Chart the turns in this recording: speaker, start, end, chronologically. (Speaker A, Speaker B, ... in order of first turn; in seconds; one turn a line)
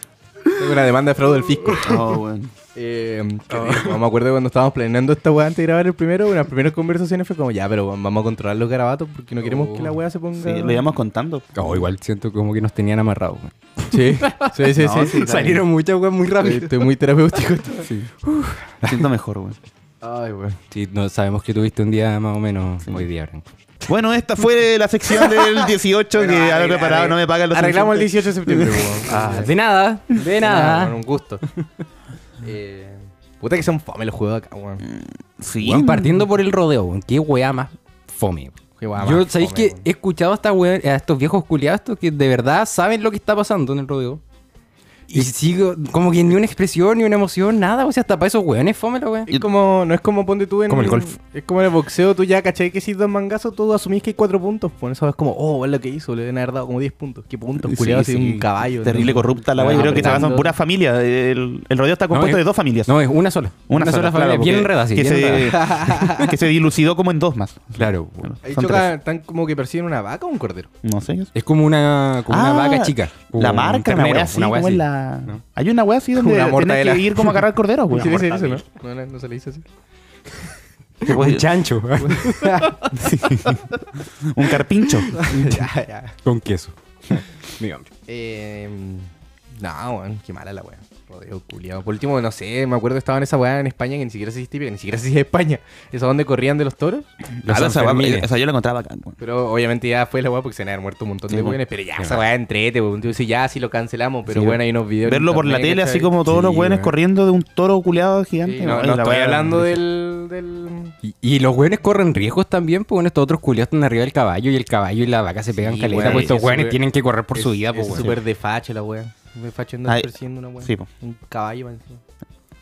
Speaker A: 0.5-2.2
Speaker B: 1.8-2.5
Speaker A: 2.8-10.8
Speaker C: 3.5-4.0
Speaker C: 9.4-10.0
Speaker B: 10.4-11.8
Speaker C: 11.5-16.9
Speaker A: 13.9-15.3
Speaker B: 14.7-15.6
Speaker A: 16.3-17.9
Speaker C: 17.8-19.1
Speaker B: 18.8-19.6
Speaker A: 20.0-20.6
Speaker C: 20.7-23.4
Speaker B: 23.9-29.2
Speaker A: 25.2-29.5
Speaker C: 29.1-31.0
Speaker A: 30.3-31.4
Speaker A: 32.4-34.8
Speaker B: 34.8-36.2
Speaker C: 35.6-44.2
Speaker A: 38.8-39.9
Speaker C: 45.1-49.3
Speaker A: 49.3-60.5
Speaker C: 50.7-51.2
Speaker B: 57.6-62.9
Speaker C: 59.5-60.3
Speaker C: 62.1-66.3
Speaker B: 63.7-68.9
Speaker A: 65.4-66.3
Speaker C: 67.8-68.7
Speaker A: 68.4-70.7
Speaker B: 70.8-71.3
Speaker C: 71.3-75.4
Speaker B: 72.3-78.6
Speaker A: 76.2-79.7
Speaker C: 81.0-82.9
Speaker B: 81.0-81.5
Speaker A: 82.0-83.0
Speaker B: 82.9-83.6
Speaker B: 84.2-85.5
Speaker A: 85.1-86.2
Speaker C: 85.1-85.6
Speaker C: 86.2-87.9
Speaker A: 88.1-97.1
Speaker B: 97.4-99.2
Speaker C: 97.4-98.3
Speaker A: 99.2-106.3
Speaker B: 101.3-101.6
Speaker C: 102.0-102.2
Speaker C: 104.3-104.6
Speaker B: 105.1-109.8
Speaker C: 106.3-106.9
Speaker A: 108.4-111.0
Speaker C: 111.0-118.2
Speaker A: 115.6-116.8
Speaker B: 116.0-116.2
Speaker A: 117.4-122.0
Speaker B: 120.6-120.9